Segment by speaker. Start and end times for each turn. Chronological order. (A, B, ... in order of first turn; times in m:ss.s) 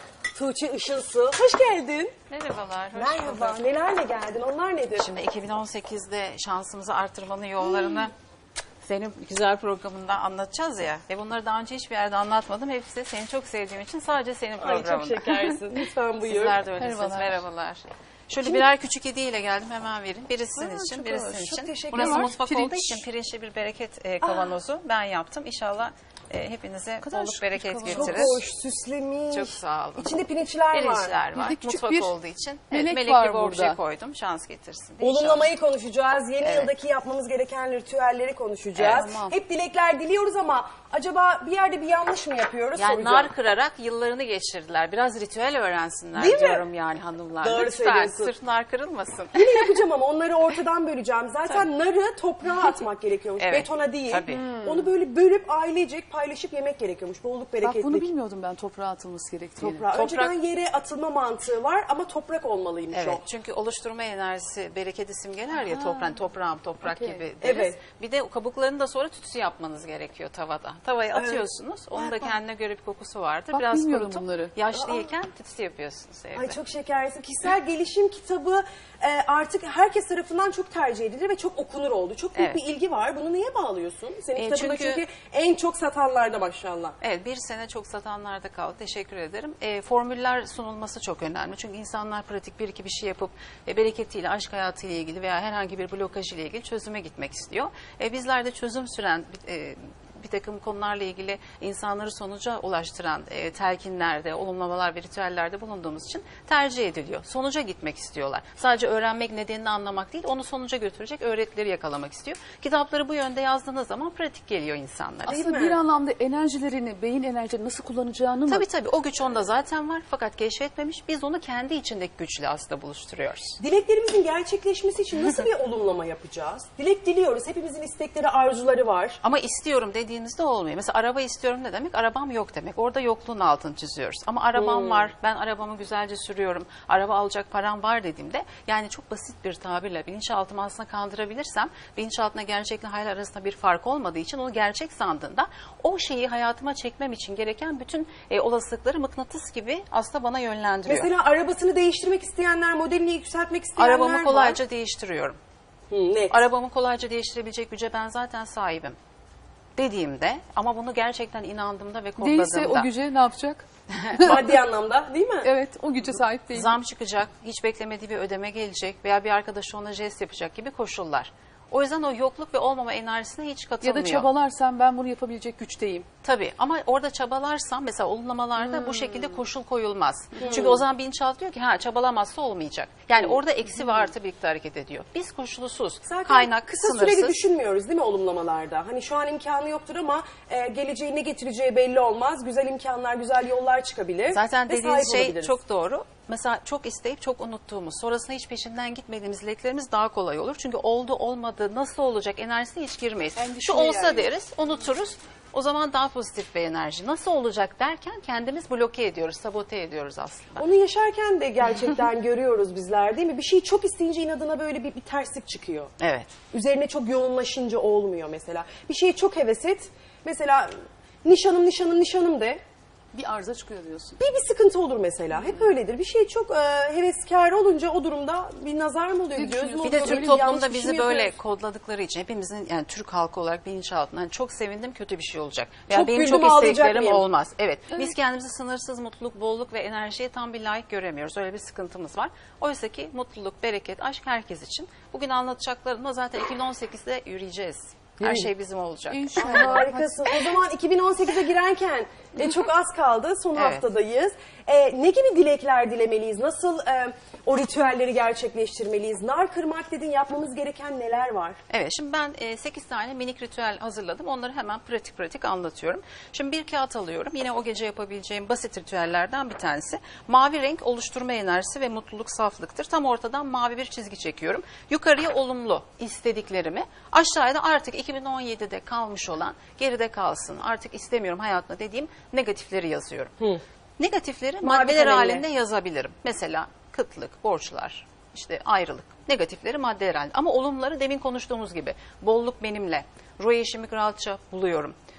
0:00.3-0:02.1 A
0:02.3-0:03.6 B
0:02.9-0:05.1 A
0:05.0-0:08.1 B
0:08.8-0:15.6 B
0:14.6-0:16.6 A
0:16.2-0:28.4 B
0:16.8-0:17.4 C
0:20.6-0:23.0 C
0:21.4-0:22.3 A
0:24.2-0:24.6 A
0:27.0-0:28.4 C
0:27.9-0:31.2 A
0:29.3-0:35.5 B
0:31.3-0:32.1 C
0:32.7-0:33.8 C
0:35.0-0:43.4 A
0:36.4-0:36.7 B
0:38.8-0:39.4 B
0:42.8-0:49.8 B
0:46.2-0:46.7 A
0:47.4-0:48.3 A
0:49.4-0:58.1 A
0:53.4-0:54.5 B
0:54.3-0:54.9 C
0:57.6-0:59.9 C
0:59.6-1:03.2 A
0:59.9-1:00.3 B
1:02.9-1:16.6 B
1:05.6-1:06.2 C
1:06.8-1:07.2 C
1:07.4-1:07.8 A
1:11.1-1:12.4 A
1:13.5-1:14.5 C
1:14.8-1:15.1 A
1:16.4-1:27.0 A
1:22.4-1:22.6 B
1:24.4-1:25.0 B
1:27.0-1:55.5 B
1:55.3-1:55.8 A
1:55.3-1:58.6 C
1:58.5-2:03.6 B
2:03.6-2:09.2 A
2:09.2-2:31.1 B
2:14.6-2:15.1 A
2:30.9-2:34.6 A
2:33.8-2:35.4 B
2:35.9-2:36.5 A
2:36.3-2:39.0 B
2:39.8-2:42.9 B
2:42.2-2:44.6 C
2:44.0-2:44.4 B
2:44.2-2:45.5 A
2:45.4-2:46.7 C
2:46.5-2:54.3 B
2:53.8-2:56.1 C
2:56.2-3:07.5 B
3:00.4-3:00.8 A
3:06.0-3:15.6 A
3:14.3-3:30.6 B
3:23.4-3:24.3 C
3:30.6-3:35.9 A
3:36.0-3:36.3 B
3:36.5-3:42.6 A
3:43.1-3:44.2 C
3:44.2-3:51.4 A
3:49.4-3:50.6 C
3:49.8-4:09.2 B
3:55.9-3:57.3 A
4:08.2-4:08.5 A
4:09.1-4:10.4 C
4:09.4-4:21.6 A
4:13.6-4:13.8 B
4:21.7-4:43.3 B
4:44.0-4:55.0 B
4:44.6-4:45.4 A